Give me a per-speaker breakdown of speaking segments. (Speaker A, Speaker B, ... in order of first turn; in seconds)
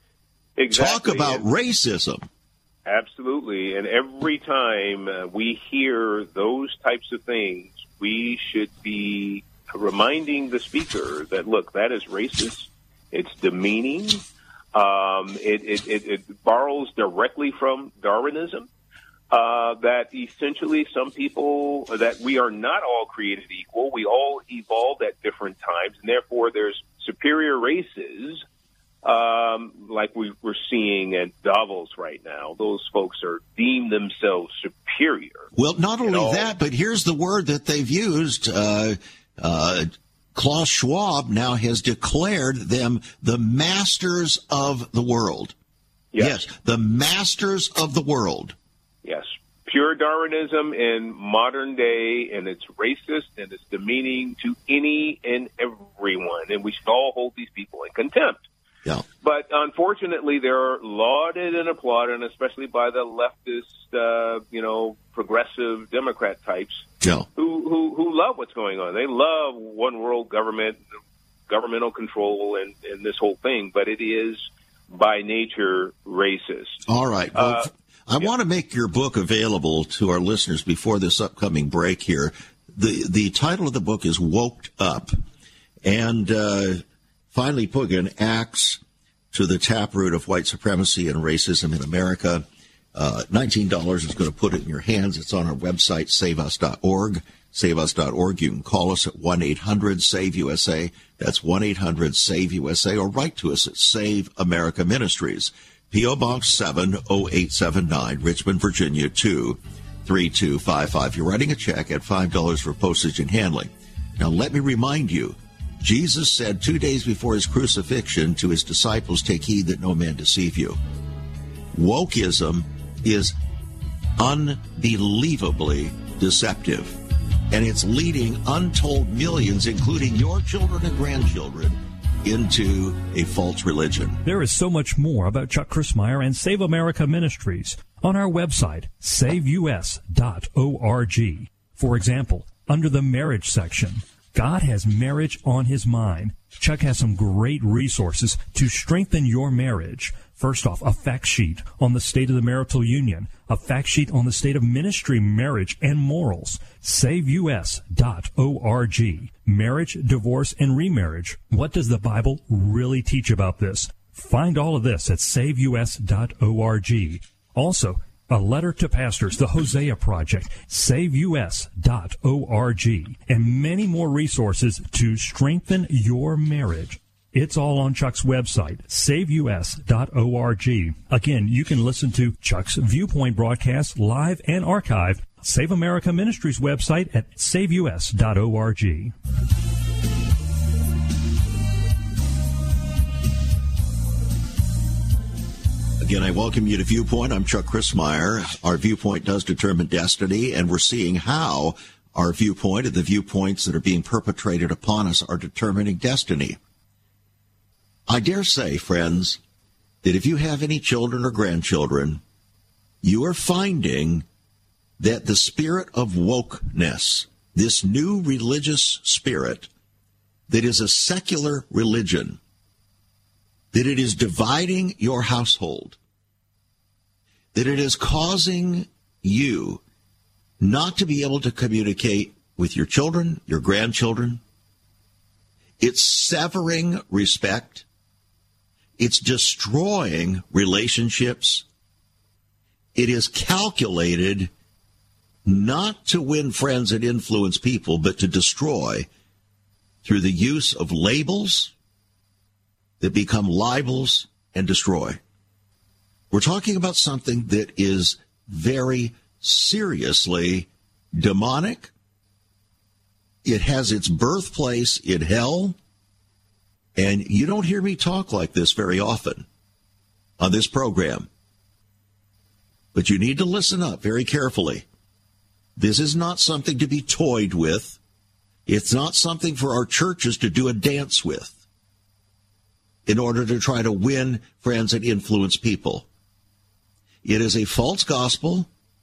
Speaker A: 0.6-1.4, 2.9-18.7, 19.3-28.4, 29.0-35.5, 36.0-36.5, 46.1-46.4, 49.0-58.4, 59.2-70.8, 71.5-76.8, 77.3-77.7
Speaker B: 0.7-2.2, 35.5-45.5, 46.2-48.5, 67.0-67.3, 76.8-85.1, 85.8-88.8, 89.3-120.8, 121.7-123.3, 124.2-127.0, 127.5-134.2, 196.0-206.6, 208.1-209.4, 210.0-212.2, 213.0-214.2, 215.0-219.7, 220.5-222.4, 223.7-226.0, 227.5-229.8, 230.6-234.4, 235.8-237.8, 239.0-241.6, 242.9-244.5, 245.4-249.1, 250.0-251.7, 253.0-255.2, 256.3-261.9, 263.4-265.8, 266.9-269.4, 270.4-271.3, 272.9-274.9, 275.8-278.0, 278.6-281.6, 283.1-286.1, 287.2-288.7
Speaker C: 134.2-189.1